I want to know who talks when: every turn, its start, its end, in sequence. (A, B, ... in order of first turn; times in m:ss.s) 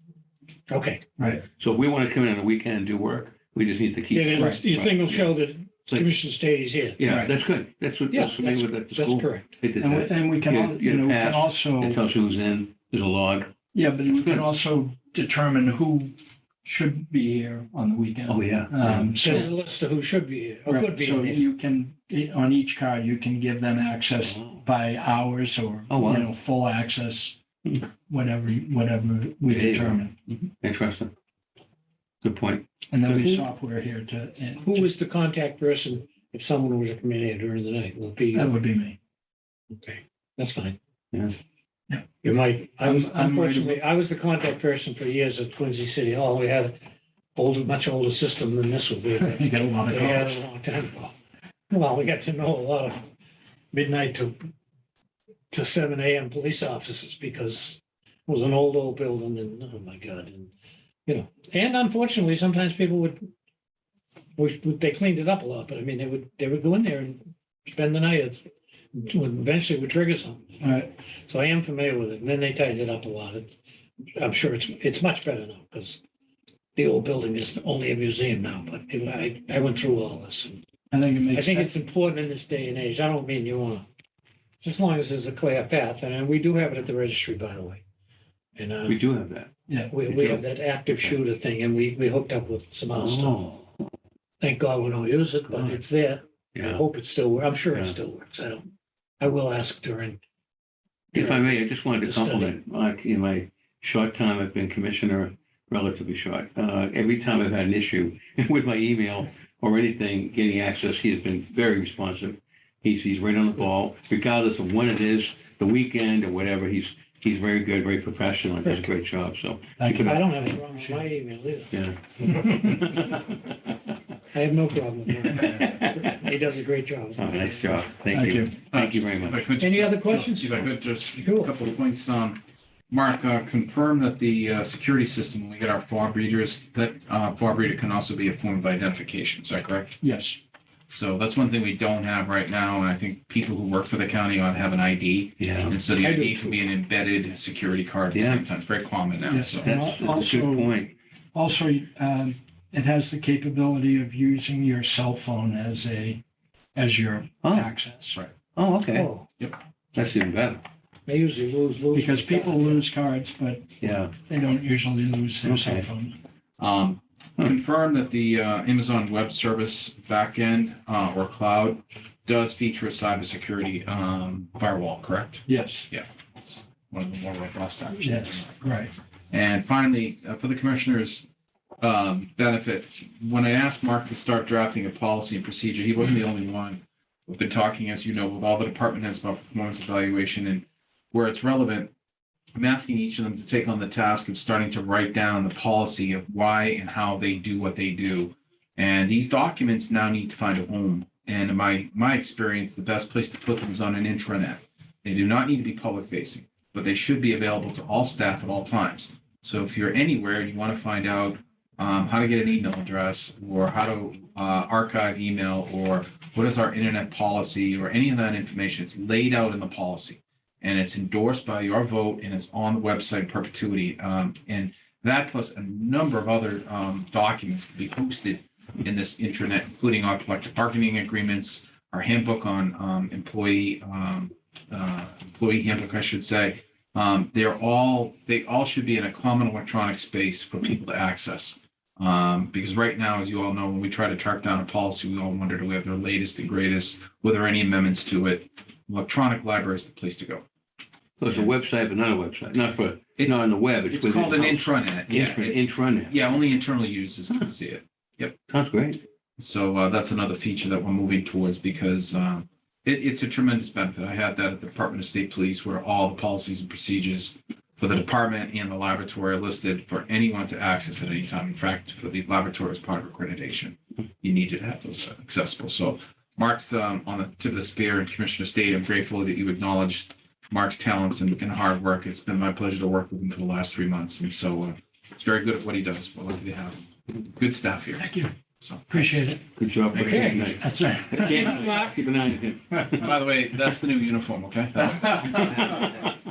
0:00.7-0:01.0 A
0:01.2-0:01.4 B
0:01.6-0:05.3 C
0:04.1-0:07.0 A
0:07.0-0:13.5 C
0:07.0-0:07.3 B
0:08.1-0:09.6 A
0:09.8-0:12.0 B
0:13.7-0:19.5 B
0:18.3-0:19.4 C
0:19.2-0:21.4 A
0:20.6-0:27.4 B
0:24.2-0:24.6 C
0:25.9-0:26.3 C
0:28.0-0:30.2 B
0:29.5-0:31.1 C
0:32.2-0:33.4 C
0:32.9-0:34.9 B
0:34.6-0:38.5 A
0:38.3-0:39.0 B
0:39.7-0:40.8 A
0:42.2-0:46.8 A
0:42.8-0:43.8 B
0:47.3-0:51.1 A
0:49.2-0:50.4 B
0:51.7-0:53.1 A
0:53.7-0:54.5 A
0:55.5-1:00.5 A
1:01.0-1:03.2 A
1:04.4-1:13.6 A
1:14.2-1:16.0 A
1:16.7-1:20.6 A
1:20.9-1:21.7 B
1:21.3-1:23.8 A
1:24.6-1:27.8 A
1:28.5-1:29.0 A
1:28.8-1:29.5 C
1:29.7-1:30.0 B
1:29.9-1:33.4 A
1:30.1-1:31.2 C
1:32.9-1:33.7 C
1:34.4-1:38.6 A
1:35.5-1:35.8 C
1:36.5-1:36.8 C
1:39.2-1:40.2 A
1:41.1-1:42.6 A
1:41.1-2:00.2 C
1:59.8-2:01.0 B
2:00.0-2:02.9 A
2:01.7-2:03.2 C
2:04.3-2:07.8 A
2:05.3-2:05.6 B
2:05.4-2:06.1 C
2:07.2-2:09.4 C
2:08.1-2:08.5 B
2:08.7-2:20.0 D
2:09.6-2:11.5 A
2:20.0-2:20.4 B
2:20.9-2:29.6 D
2:25.4-2:25.8 C
2:26.0-2:26.6 A
2:28.1-2:28.4 C
2:29.2-2:30.7 B
2:29.6-2:30.9 C
2:31.3-2:36.2 B
2:36.7-2:38.2 B
2:37.4-2:37.7 C
2:38.5-2:39.1 C
2:38.9-2:39.3 A
2:39.9-2:40.6 C
2:41.0-2:42.8 A
2:41.9-2:46.2 B
2:43.8-2:44.1 C
2:45.4-2:45.9 C
2:46.6-2:58.8 D
2:55.5-2:55.9 B
2:58.0-2:58.9 B
2:59.3-3:01.3 D
3:01.8-3:11.9 D
3:12.5-4:10.4 D
4:11.2-4:16.4 C
4:13.2-4:18.4 D
4:18.5-4:19.0 C
4:19.4-4:48.1 D
4:48.0-4:48.3 B
4:48.6-4:49.2 D
4:48.9-4:49.4 B
4:49.6-4:53.2 C
4:49.9-4:50.6 D
4:49.9-4:51.8 B
4:53.0-4:55.8 D
4:55.1-4:56.2 C